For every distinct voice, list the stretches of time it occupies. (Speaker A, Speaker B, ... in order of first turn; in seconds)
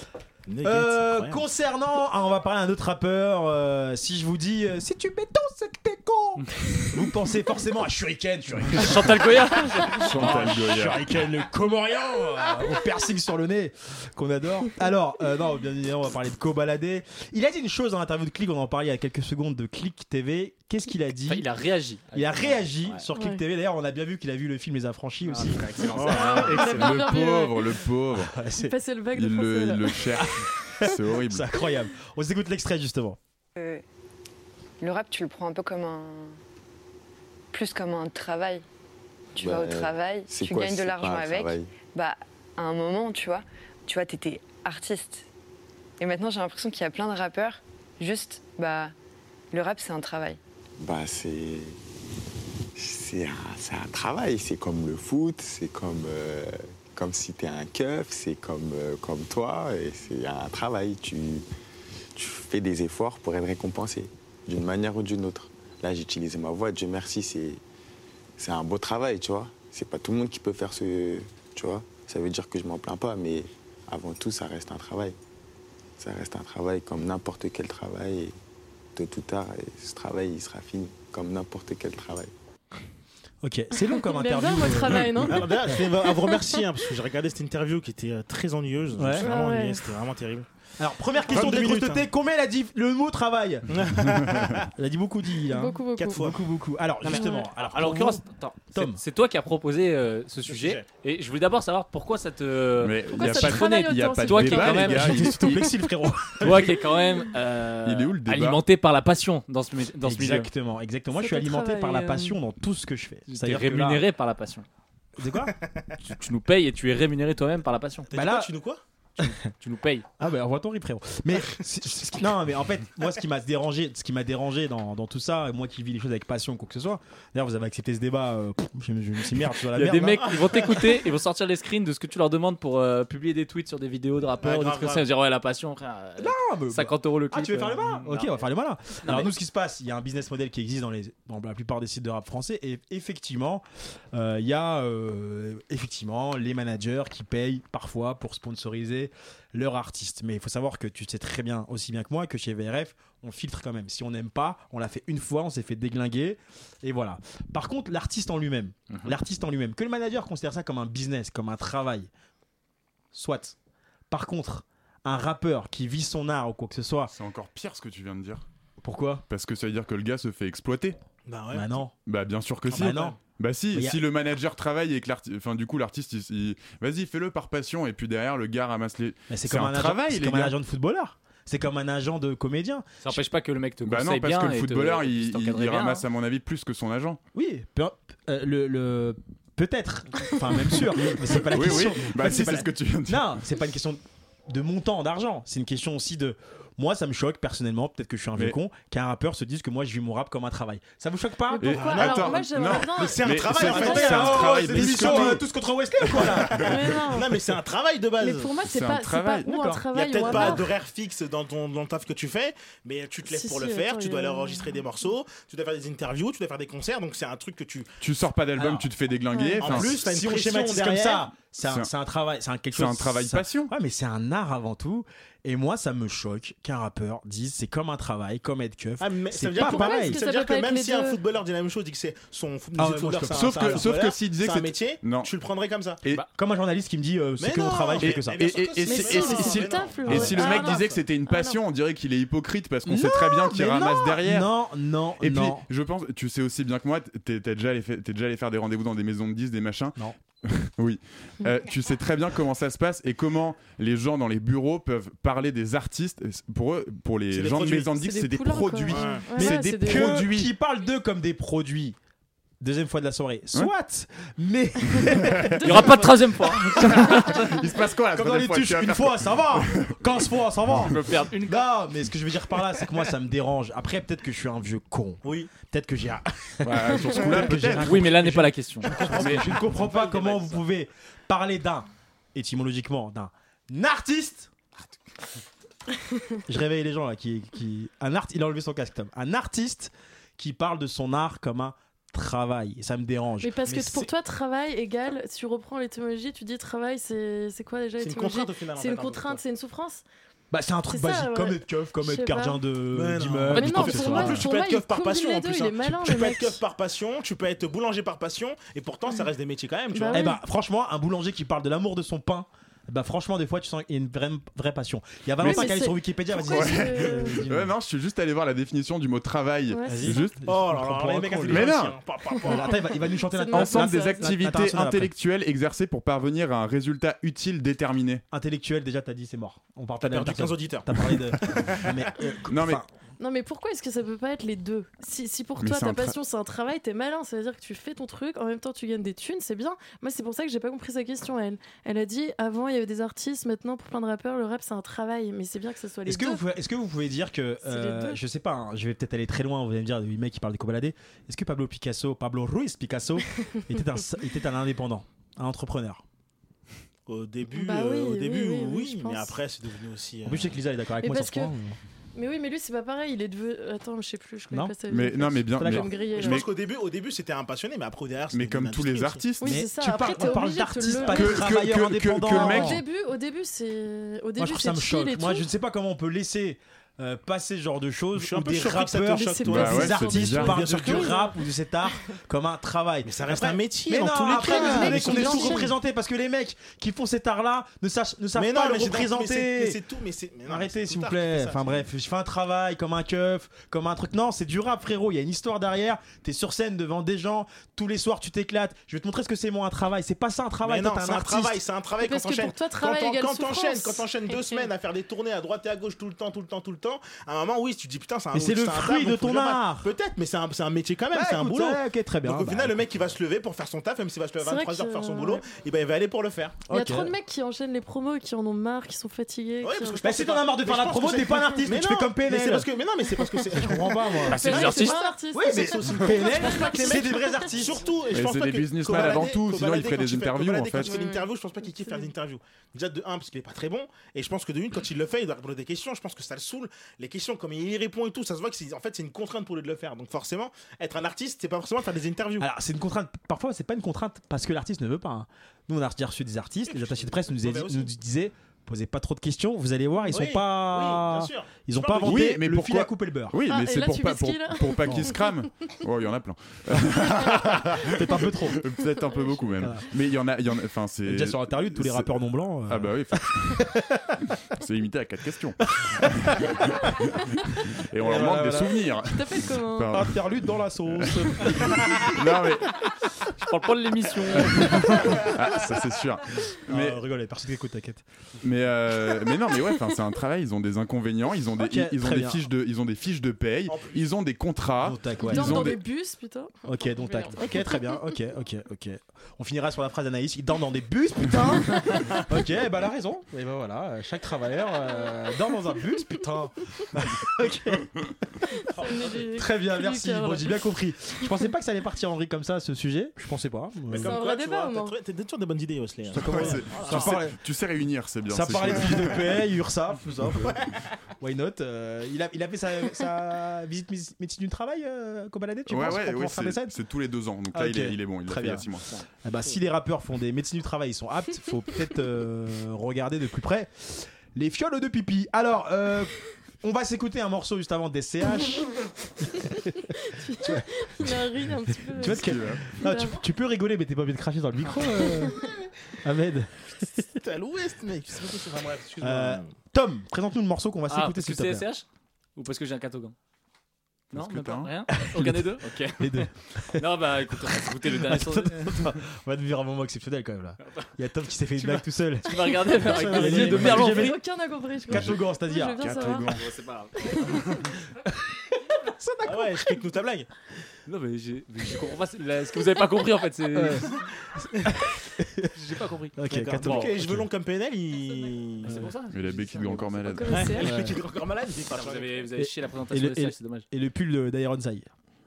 Speaker A: 0.5-1.4, 25.9-26.3, 85.3-90.5, 91.2-92.0, 93.7-94.7, 96.0-96.4, 100.5-100.8, 118.1-118.8, 130.5-130.9, 134.4-135.1, 171.2-171.8, 201.7-205.4, 206.1-208.5, 209.9-217.9, 219.6-221.3, 229.0-236.0, 237.4-241.0, 257.3-257.9, 258.9-259.2, 275.2-275.5, 298.0-299.4, 302.9-310.3, 320.4-322.9, 330.0-332.0, 357.1-360.6, 366.1-369.3, 378.1-381.2, 383.0-385.7, 388.3-391.7, 400.6-416.6, 419.6-425.0, 425.6-442.5, 446.7-447.9, 450.0-452.3, 483.7-484.0, 498.8-499.2, 503.9-507.1, 537.1-539.5, 559.2-560.3, 566.3-568.9, 570.3-572.3
Speaker B: 0.6-21.5, 22.1-26.3, 28.1-28.7, 30.2-33.2, 83.4-85.8, 89.0-89.3, 90.8-93.7, 94.8-98.2, 98.7-99.0, 104.8-106.8, 110.0-114.0, 115.2-115.5, 118.1-118.5, 120.2-130.5, 136.2-162.1, 163.1-163.6, 164.1-167.1, 168.8-169.2, 171.5-171.9, 172.7-173.2, 173.7-174.0, 179.3-183.1, 187.3-201.9, 203.3-206.7, 209.5-210.6, 218.6-218.9, 219.6-230.2, 232.7-233.9, 236.3-239.5, 242.8-245.6, 259.3-262.0, 262.6-267.4, 268.1-284.5, 286.5-294.1, 300.5-304.5, 310.1-317.7, 319.9-321.8, 322.4-325.1, 328.3-332.9, 346.1-356.0, 360.2-361.8, 365.4-365.9, 369.4-372.8, 374.4-389.8, 390.4-401.6, 408.3-409.9, 411.1-412.8, 416.7-417.1, 420.0-422.7, 423.5-424.8, 425.3-427.8, 442.4-453.4, 457.8-458.6, 461.0-462.9, 463.5-463.8, 465.7-466.6, 468.0-468.9, 469.9-472.1, 474.5-474.8, 476.7-478.0, 481.6-482.4, 484.8-485.7, 486.6-497.9, 499.1-504.1, 506.1-507.4, 508.3-510.7, 511.2-516.7, 517.5-518.7, 519.2-528.7, 529.2-531.1, 531.9-535.5, 536.0-536.7, 539.0-541.7, 544.9-554.2, 554.9-555.9, 559.0-559.7, 563.5-564.0, 564.6-565.5, 566.1-567.3, 570.5-571.0, 572.4-574.9
Speaker C: 8.8-10.3, 21.2-23.0, 25.3-26.9, 97.1-105.4, 106.4-110.5, 113.3-114.7, 116.0-118.1, 119.2-120.1, 129.7-138.4, 139.0-139.3, 183.0-186.0, 265.6-267.6, 270.8-271.7, 277.8-280.6, 424.3-425.0, 473.4-475.0, 540.9-541.8, 542.4-543.1, 544.1-548.9, 551.5-554.2, 556.3-557.8, 560.9-564.0, 565.5-567.0, 568.6-570.6, 571.7-573.6
Speaker D: 10.0-11.0, 26.4-28.3, 29.1-31.4, 102.8-105.7, 107.8-108.6, 167.1-168.4, 169.3-170.9, 172.1-180.5, 183.8-187.2, 191.3-193.4, 201.6-205.4, 206.2-206.5, 208.6-209.5, 218.0-220.0, 221.6-221.9, 222.7-223.7, 233.3-235.3, 238.0-244.5, 245.2-260.5, 264.9-265.8, 266.8-270.1, 276.6-278.2, 315.4-315.7, 316.4-320.4, 321.5-322.0, 323.5-328.2, 332.5-332.8, 335.6-336.1, 364.9-366.4, 368.3-369.5, 371.0-372.8, 379.5-380.6, 428.1-431.0, 452.0-463.7, 464.5-472.7, 474.4-477.0, 478.4-485.8, 506.1-509.4, 515.7-518.9, 532.0-532.7, 544.1-544.7, 554.9-555.2, 555.8-556.4, 569.1-570.5
Speaker E: 23.1-23.4, 26.0-27.8, 28.6-30.0, 83.7-85.5, 89.2-89.8, 95.5-96.2, 97.1-97.5, 103.1-105.3, 111.1-112.4, 190.5-190.8, 201.5-204.3, 206.6-207.3, 208.2-210.7, 213.3-214.7, 219.3-219.6, 229.6-231.2, 238.9-241.6, 258.0-260.2, 265.5-266.1, 293.4-300.0, 300.9-302.6, 303.5-306.6, 309.9-310.4, 315.4-317.4, 319.7-320.3, 323.3-324.3, 333.2-346.4, 347.6-348.2, 357.5-359.3, 361.0-361.5, 362.1-366.4, 369.4-371.6, 372.3-375.4, 379.0-381.4, 384.3-385.7, 402.0-404.6, 414.4-415.4, 416.7-420.1, 424.3-427.4, 430.8-431.3, 453.5-455.2, 459.1-459.6, 469.0-469.9, 485.2-488.1, 491.3-492.2, 498.6-500.6, 504.0-504.9, 530.0-533.2, 535.0-535.4, 553.0-556.3, 570.1-570.7
Speaker F: 33.6-33.8, 34.8-36.4, 37.5-38.6, 39.4-45.2, 46.0-48.9, 49.5-50.4
Speaker G: 39.4-41.7, 50.8-51.8, 52.8-61.5, 62.1-67.6, 68.4-75.2, 76.0-78.4, 78.9-82.3